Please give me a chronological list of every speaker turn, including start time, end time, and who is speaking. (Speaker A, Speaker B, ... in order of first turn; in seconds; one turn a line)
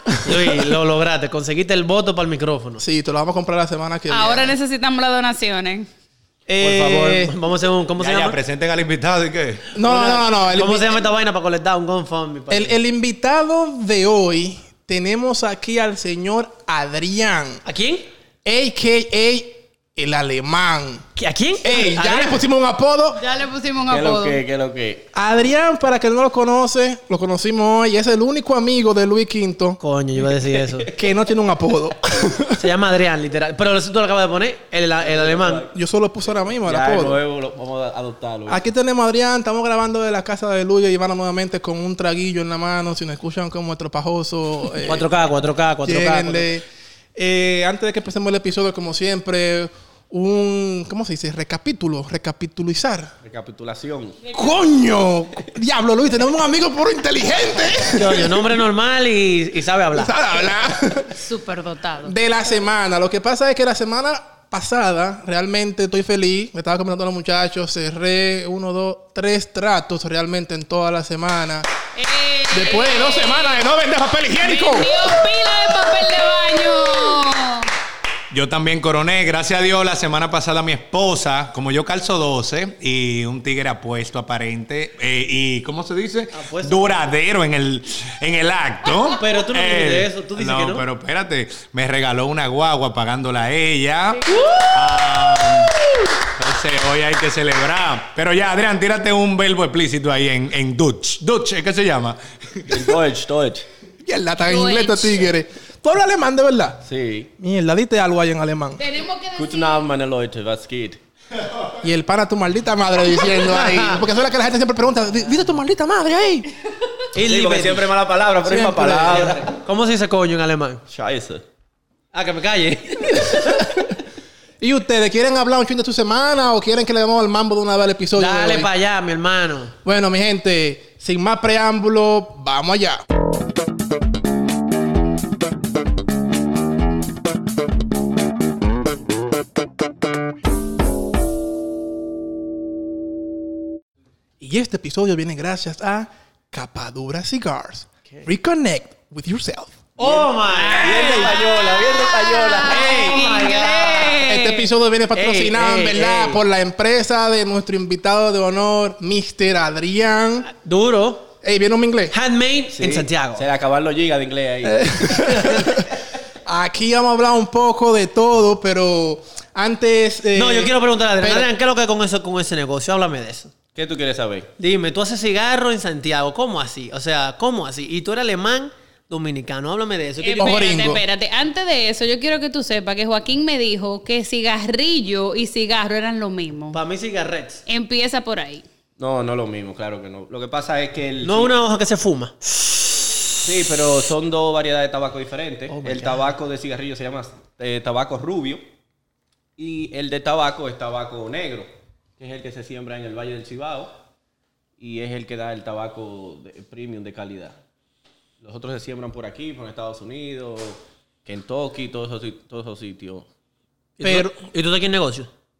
Speaker A: 0.2-2.8
Speaker B: 2.8-4.5
Speaker C: 4.1-5.9
Speaker A: 6.5-8.4
Speaker B: 6.5-7.3
Speaker D: 8.0-9.7
Speaker B: 9.7-11.0
Speaker A: 9.8-12.8
Speaker B: 12.5-17.6
Speaker A: 17.6-18.1
Speaker B: 18.4-21.1
Speaker A: 21.2-22.4
Speaker B: 21.6-23.2
Speaker C: 23.2-24.4
Speaker E: 23.9-25.1
Speaker B: 25.1-29.8
Speaker A: 29.8-30.9
Speaker B: 30.9-32.6
Speaker A: 32.5-35.6
Speaker E: 35.0-35.7
Speaker B: 35.7-37.2
Speaker E: 36.6-38.6
Speaker B: 38.5-45.1
Speaker A: 44.8-46.5
Speaker B: 45.8-46.6
Speaker B: 47.2-53.1
Speaker E: 53.2-54.2
Speaker B: 54.3-58.4
Speaker A: 57.9-60.1
Speaker B: 60.0-61.2
Speaker C: 61.1-62.1
Speaker B: 62.0-71.7
Speaker C: 72.0-73.6
Speaker B: 72.5-75.2
Speaker C: 74.4-77.7
Speaker D: 78.3-102.9
Speaker A: 86.3-87.0
Speaker A: 89.2-90.8
Speaker C: 94.3-94.7
Speaker E: 102.7-103.7
Speaker B: 104.0-106.8
Speaker C: 104.5-105.3
Speaker E: 106.8-107.3
Speaker B: 107.4-108.8
Speaker C: 108.8-109.9
Speaker E: 109.4-111.0
Speaker B: 111.8-116.5
Speaker A: 113.4-114.0
Speaker A: 117.1-117.9
Speaker E: 117.2-119.5
Speaker B: 118.4-119.4
Speaker A: 119.1-120.8
Speaker E: 120.9-121.4
Speaker A: 122.1-123.7
Speaker B: 123.2-123.8
Speaker B: 124.6-128.7
Speaker A: 128.1-129.7
Speaker B: 129.8-133.0
Speaker B: 144.4-149.9
Speaker A: 150.0-151.3
Speaker C: 150.6-154.7
Speaker E: 150.8-153.1
Speaker A: 152.6-154.2
Speaker B: 154.2-160.5
Speaker A: 155.1-156.4
Speaker A: 160.6-161.3
Speaker B: 161.4-162.1
Speaker A: 162.1-163.4
Speaker E: 162.7-165.3
Speaker B: 164.6-165.9
Speaker B: 166.4-171.5
Speaker A: 170.3-173.5
Speaker E: 173.8-174.5
Speaker A: 174.6-180.7
Speaker C: 180.2-186.8
Speaker B: 180.4-181.0
Speaker A: 186.7-187.6
Speaker C: 187.7-188.6
Speaker E: 189.0-191.5
Speaker A: 191.2-192.8
Speaker E: 193.4-198.6
Speaker A: 195.7-196.3
Speaker E: 199.6-203.9
Speaker E: 204.8-207.6
Speaker E: 208.4-213.3
Speaker A: 214.0-215.3
Speaker B: 214.0-214.3